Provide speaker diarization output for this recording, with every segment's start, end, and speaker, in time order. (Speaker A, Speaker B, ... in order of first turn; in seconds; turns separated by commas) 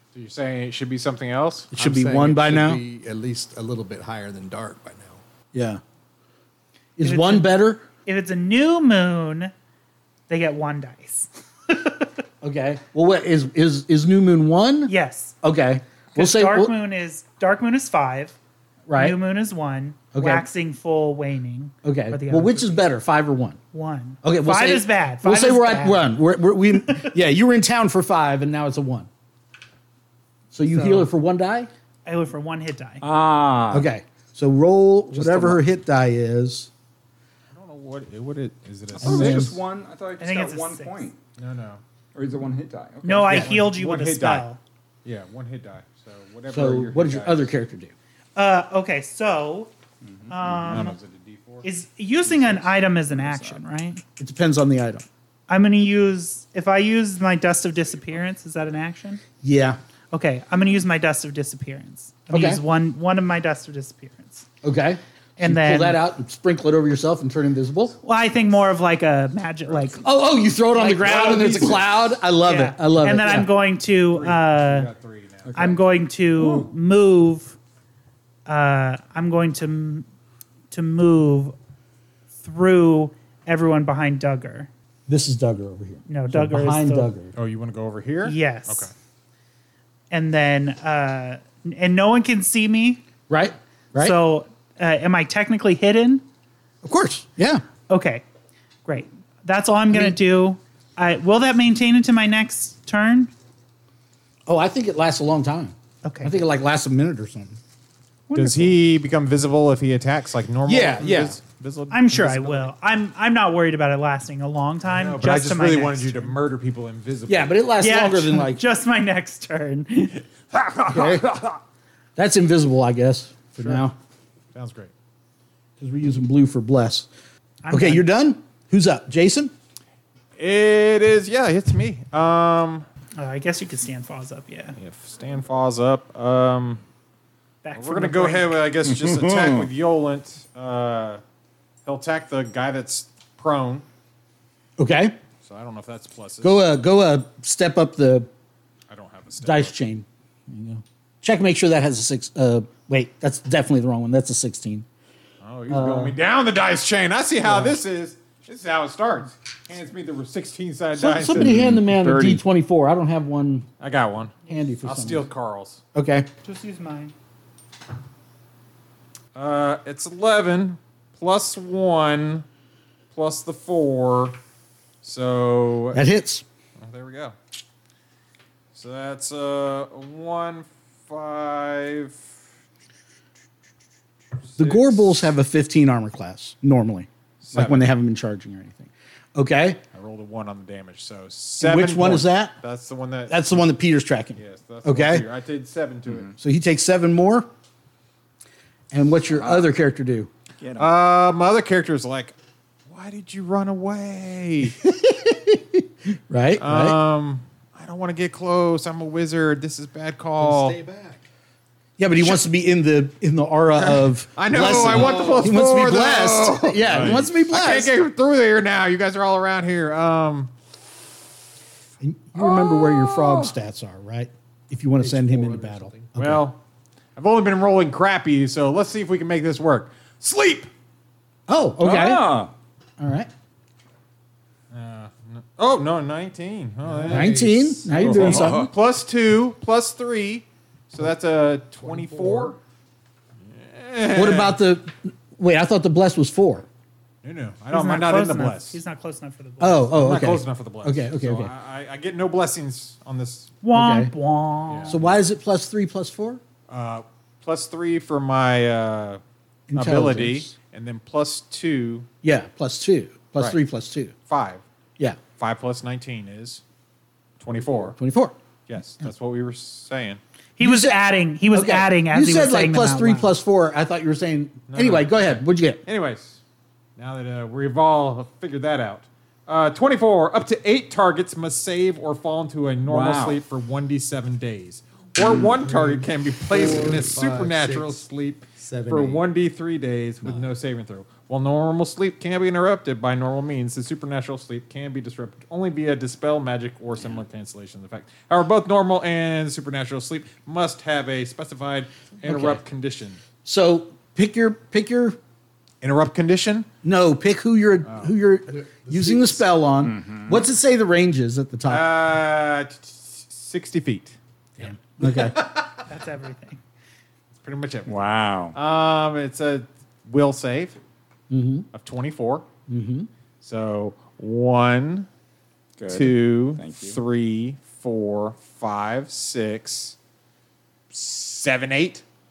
Speaker A: 0.1-1.7, Speaker B: 1.7-2.8, Speaker C: 1.7-5.2, Speaker B: 5.5-5.8, Speaker B: 7.0-7.8, Speaker D: 7.0-9.5, Speaker D: 10.3-12.1, Speaker B: 12.4-16.7, Speaker D: 14.9-15.3, Speaker D: 16.1-18.3, Speaker B: 18.9-19.2, Speaker D: 18.9-22.8, Speaker B: 20.1-20.4, Speaker B: 21.8-23.6, Speaker D: 23.7-26.1, Speaker B: 24.2-29.1, Speaker D: 26.8-27.1, Speaker B: 30.5-31.7, Speaker C: 30.7-31.1, Speaker D: 32.0-33.0, Speaker E: 33.0-33.9, Speaker B: 33.7-36.7, Speaker E: 35.1-35.6, Speaker A: 37.5-39.6, Speaker E: 38.9-41.2, Speaker B: 39.0-39.5, Speaker D: 40.2-41.1, Speaker A: 41.4-41.8, Speaker E: 42.1-43.5, Speaker D: 43.0-44.6, Speaker A: 43.2-44.5, Speaker A: 45.0-47.4, Speaker B: 46.5-47.9, Speaker D: 48.4-49.7, Speaker E: 50.0-50.9, Speaker D: 50.3-51.0, Speaker A: 50.6-51.6, Speaker D: 51.6-54.0, Speaker E: 52.3-53.6, Speaker B: 54.2-55.0, Speaker D: 55.5-59.2, Speaker B: 59.4-59.8, Speaker D: 60.1-64.5, Speaker B: 62.3-62.6, Speaker B: 64.6-68.0, Speaker D: 65.4-66.0, Speaker D: 68.0-70.0, Speaker B: 70.0-73.5, Speaker D: 70.8-71.8, Speaker A: 70.8-71.9, Speaker D: 72.4-74.9, Speaker A: 74.1-75.5, Speaker E: 75.4-75.8, Speaker D: 75.5-77.5, Speaker E: 76.4-76.7, Speaker D: 78.5-80.0, Speaker D: 80.7-81.5, Speaker D: 82.4-84.7, Speaker B: 85.1-87.3, Speaker D: 86.1-87.1, Speaker A: 87.3-88.9, Speaker D: 88.2-88.9, Speaker D: 90.1-93.0, Speaker B: 93.3-94.2, Speaker D: 94.0-96.2, Speaker B: 96.8-97.6, Speaker D: 97.9-98.2, Speaker D: 98.8-103.3, Speaker B: 99.9-100.2, Speaker B: 104.5-107.6, Speaker D: 106.0-106.4, Speaker B: 108.3-108.7, Speaker A: 108.3-112.7, Speaker B: 110.7-111.4, Speaker D: 111.9-116.3, Speaker A: 114.8-117.5, Speaker B: 117.3-118.6, Speaker D: 117.8-120.2, Speaker A: 120.5-121.3, Speaker B: 120.9-121.3, Speaker B: 122.2-124.0, Speaker A: 124.5-124.9, Speaker B: 125.8-127.1, Speaker D: 127.6-128.1, Speaker B: 127.7-129.5, Speaker A: 130.4-132.8, Speaker D: 133.2-134.8, Speaker A: 134.8-136.8, Speaker D: 137.6-138.5, Speaker A: 137.8-141.2, Speaker E: 138.8-139.7, Speaker A: 141.8-143.8, Speaker B: 144.8-145.2, Speaker A: 145.4-146.6, Speaker B: 146.4-148.3, Speaker A: 148.9-149.7, Speaker B: 149.4-154.8, Speaker A: 155.4-161.5, Speaker B: 155.7-156.2, Speaker B: 157.4-157.8, Speaker B: 160.9-163.7, Speaker E: 161.3-162.4, Speaker A: 163.8-165.8, Speaker B: 164.5-165.3, Speaker B: 165.9-166.3, Speaker D: 166.4-167.1, Speaker A: 169.3-172.4, Speaker A: 173.1-174.4, Speaker A: 175.0-176.0, Speaker B: 175.9-176.4, Speaker A: 176.8-177.3, Speaker A: 178.7-182.2, Speaker A: 184.5-185.3, Speaker B: 184.6-189.8, Speaker A: 187.4-187.9, Speaker A: 189.9-193.4, Speaker B: 191.6-192.6, Speaker B: 193.3-195.2, Speaker A: 194.4-196.3, Speaker B: 196.4-197.5, Speaker B: 198.9-200.3, Speaker E: 199.3-199.7, Speaker E: 200.6-200.9, Speaker A: 200.8-202.3, Speaker A: 202.9-204.8, Speaker B: 204.8-207.0, Speaker A: 206.6-210.8, Speaker C: 210.4-211.2, Speaker B: 212.0-217.9, Speaker A: 213.8-220.5, Speaker C: 214.6-215.5, Speaker B: 222.0-226.4, Speaker E: 222.3-223.5, Speaker C: 225.0-226.1, Speaker A: 226.2-226.6, Speaker A: 227.2-230.7, Speaker B: 231.5-232.3, Speaker E: 231.8-232.5, Speaker B: 233.0-233.3, Speaker A: 234.7-237.3, Speaker C: 236.8-238.3, Speaker B: 237.1-238.7, Speaker A: 237.9-242.6, Speaker E: 238.1-238.7, Speaker C: 241.8-242.6, Speaker A: 243.5-244.6, Speaker B: 244.1-246.7, Speaker A: 247.2-248.8, Speaker D: 247.7-249.9, Speaker B: 249.6-251.5, Speaker A: 249.9-253.5, Speaker D: 253.6-255.0, Speaker B: 253.7-254.1, Speaker A: 254.7-255.1, Speaker B: 254.9-256.4, Speaker A: 256.7-259.2, Speaker B: 259.7-260.5, Speaker A: 259.7-262.1, Speaker B: 262.2-264.1, Speaker A: 264.3-264.6, Speaker A: 265.4-266.6, Speaker A: 267.4-267.9, Speaker B: 267.9-268.4, Speaker A: 268.7-270.2, Speaker D: 270.6-273.3, Speaker B: 270.6-275.8, Speaker A: 274.7-276.4, Speaker A: 277.0-303.2, Speaker E: 282.9-283.4, Speaker C: 285.2-288.0, Speaker C: 288.6-289.2, Speaker C: 290.2-290.5, Speaker B: 302.2-302.6, Speaker B: 303.4-305.2, Speaker A: 305.8-306.7, Speaker B: 306.8-311.9, Speaker C: 308.5-309.4, Speaker E: 309.8-310.4, Speaker A: 311.7-314.1, Speaker B: 314.6-315.4, Speaker A: 315.0-315.7, Speaker D: 315.9-316.6, Speaker A: 317.3-320.8, Speaker E: 317.9-318.6, Speaker B: 321.3-321.7, Speaker A: 321.7-322.4, Speaker B: 322.7-323.1, Speaker A: 323.4-325.1, Speaker E: 325.8-327.0, Speaker A: 325.9-329.9, Speaker A: 330.9-332.0